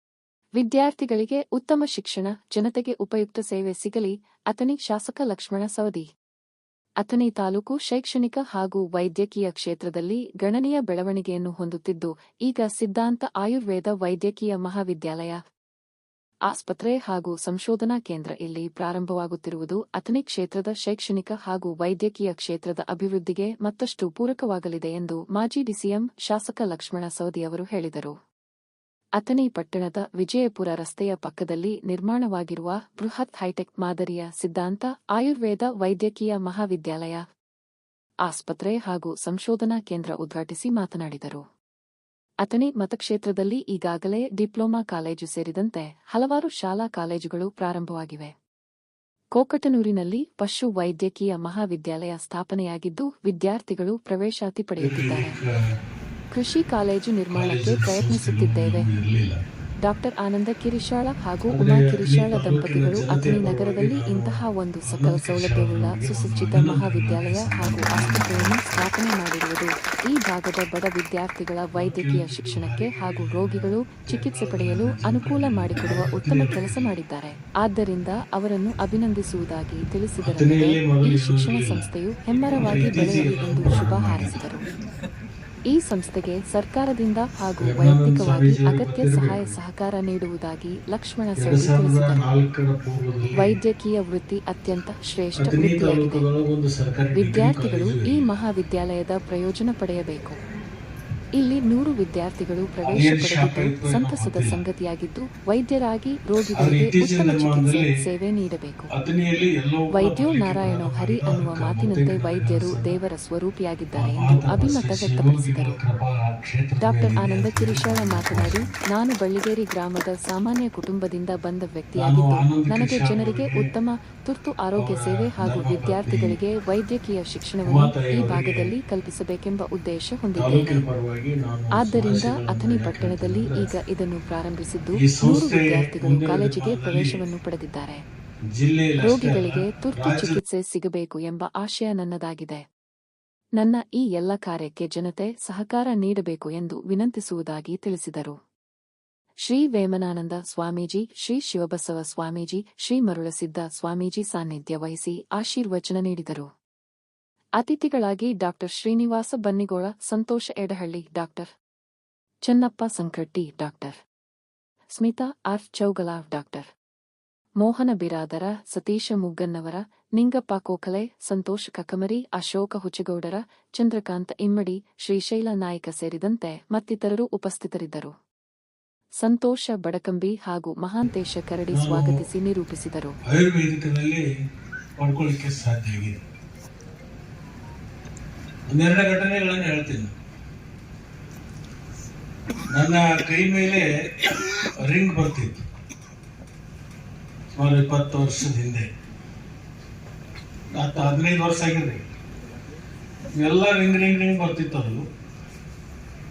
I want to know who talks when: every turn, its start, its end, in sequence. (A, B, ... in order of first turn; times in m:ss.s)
0:00.6-0:06.1 A
0:07.0-0:15.4 A
0:16.5-0:28.2 A
0:29.2-0:37.2 A
0:38.3-0:41.4 A
0:42.4-0:48.3 A
0:49.4-0:55.4 A
0:54.8-0:55.8 B
0:56.3-0:58.9 A
0:57.3-0:59.4 B
0:59.8-1:24.6 A
1:01.5-1:08.9 B
1:11.8-1:16.9 B
1:20.2-1:21.8 B
1:22.6-1:24.4 B
1:25.7-1:32.2 A
1:27.6-1:29.6 B
1:31.4-1:33.5 B
1:33.4-1:36.2 A
1:35.4-1:38.2 B
1:37.2-1:40.4 A
1:41.4-1:48.9 A
1:42.9-1:44.6 B
1:46.6-1:47.9 B
1:48.9-1:53.0 B
1:49.9-1:55.8 A
1:54.0-1:58.7 B
1:56.8-2:10.8 A
2:02.0-2:03.7 B
2:04.8-2:06.4 B
2:07.7-2:08.7 B
2:10.4-2:13.7 B
2:11.8-2:18.0 A
2:15.0-2:17.2 B
2:18.6-2:20.4 B
2:19.0-2:22.6 A
2:23.6-2:28.4 A
2:29.5-2:36.5 A
2:37.6-2:41.5 A
2:42.5-2:44.0 A
2:45.0-2:46.7 A
2:47.6-2:58.1 A
2:59.2-3:03.2 A
3:01.7-3:02.2 B
3:03.3-3:04.2 B
3:05.0-3:06.2 B
3:08.7-3:10.1 B
3:12.7-3:13.9 B
3:14.8-3:15.6 B
3:17.6-3:18.9 B
3:20.8-3:22.0 B
3:23.4-3:25.0 B